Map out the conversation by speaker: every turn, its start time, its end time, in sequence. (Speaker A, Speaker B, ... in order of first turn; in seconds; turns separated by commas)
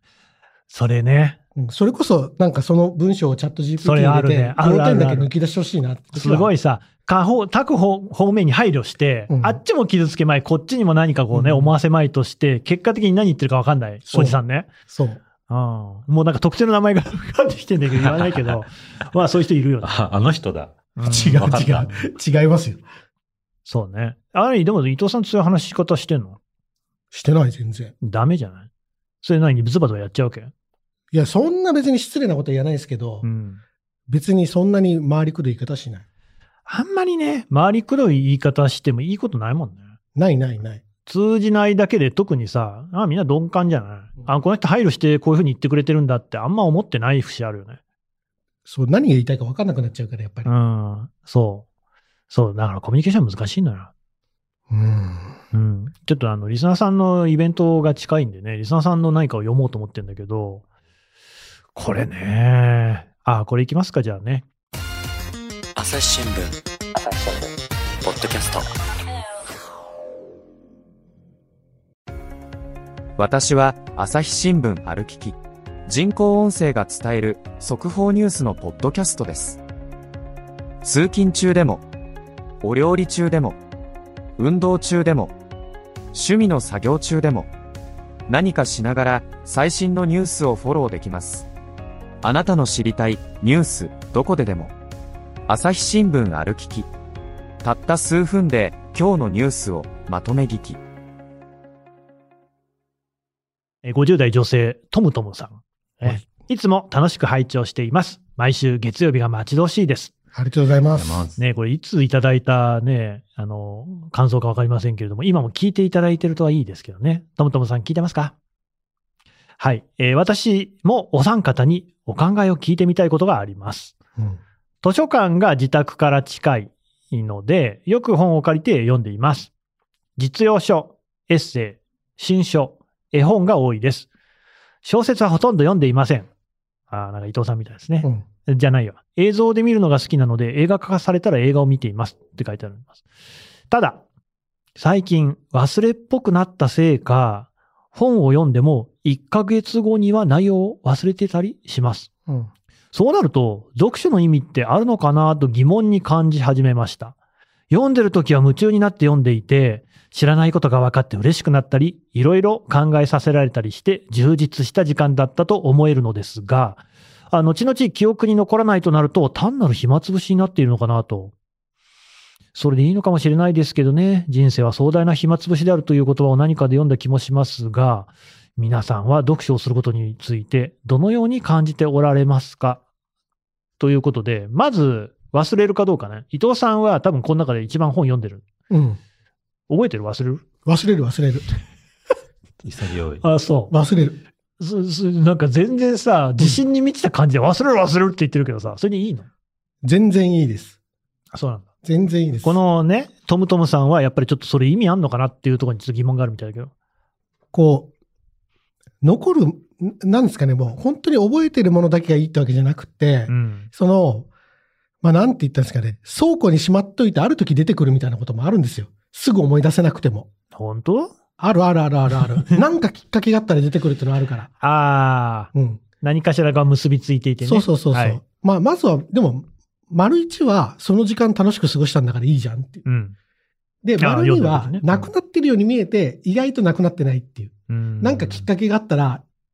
Speaker A: 0.7-1.4, Speaker B: 1.5-6.5, Speaker A: 3.8-5.3, Speaker A: 6.1-14.7, Speaker B: 9.3-9.6, Speaker B: 11.3-11.7, Speaker B: 14.1-15.2, Speaker A: 15.5-19.9, Speaker C: 18.0-18.6, Speaker C: 19.8-21.9, Speaker A: 21.0-22.0, Speaker B: 21.0-22.8, Speaker A: 23.6-26.4, Speaker B: 27.1-27.9, Speaker A: 28.0-28.7, Speaker A: 29.2-30.5, Speaker B: 31.1-33.2, Speaker A: 33.2-33.6, Speaker B: 34.1-36.0, Speaker A: 36.7-39.9, Speaker B: 40.1-40.8, Speaker A: 41.1-47.8, Speaker B: 48.6-50.5, Speaker A: 50.5-51.6, Speaker A: 52.3-53.9, Speaker B: 54.7-55.4, Speaker A: 55.5-60.6, Speaker A: 61.7-64.4, Speaker D: 65.8-68.7, Speaker E: 73.2-79.6, Speaker E: 80.8-81.8, Speaker E: 82.6-83.6, Speaker E: 84.4-85.3, Speaker E: 86.1-87.5, Speaker E: 88.3-91.5, Speaker E: 92.2-94.7, Speaker E: 95.5-96.9, Speaker E: 97.6-100.8, Speaker A: 103.8-110.1, Speaker B: 110.3-111.3, Speaker C: 110.9-111.4, Speaker A: 111.4-118.3, Speaker A: 119.6-123.9, Speaker A: 124.8-129.5, Speaker A: 130.2-134.1, Speaker A: 134.8-136.3, Speaker A: 136.9-143.0, Speaker A: 143.7-144.0, Speaker A: 144.8-152.1, Speaker A: 152.9-157.1, Speaker A: 157.7-171.3, Speaker A: 172.5-182.8, Speaker A: 183.8-188.4, Speaker B: 188.7-189.0, Speaker A: 189.7-190.4, Speaker B: 190.6-191.4, Speaker C: 192.6-193.2, Speaker A: 193.2-193.7, Speaker B: 193.7-194.2, Speaker A: 194.6-199.3, Speaker B: 199.8-200.8, Speaker A: 201.3-201.7, Speaker B: 201.8-202.6, Speaker A: 202.4-206.7, Speaker B: 207.5-207.9, Speaker B: 209.0-214.3, Speaker A: 213.3-213.7, Speaker B: 215.0-220.3, Speaker A: 220.5-221.1, Speaker B: 221.4-224.5, Speaker A: 224.6-225.5, Speaker B: 225.5-225.8, Speaker A: 226.0-228.2, Speaker B: 227.4-232.8, Speaker A: 232.8-233.1, Speaker B: 233.8-239.2, Speaker A: 234.0-235.1, Speaker A: 237.7-238.5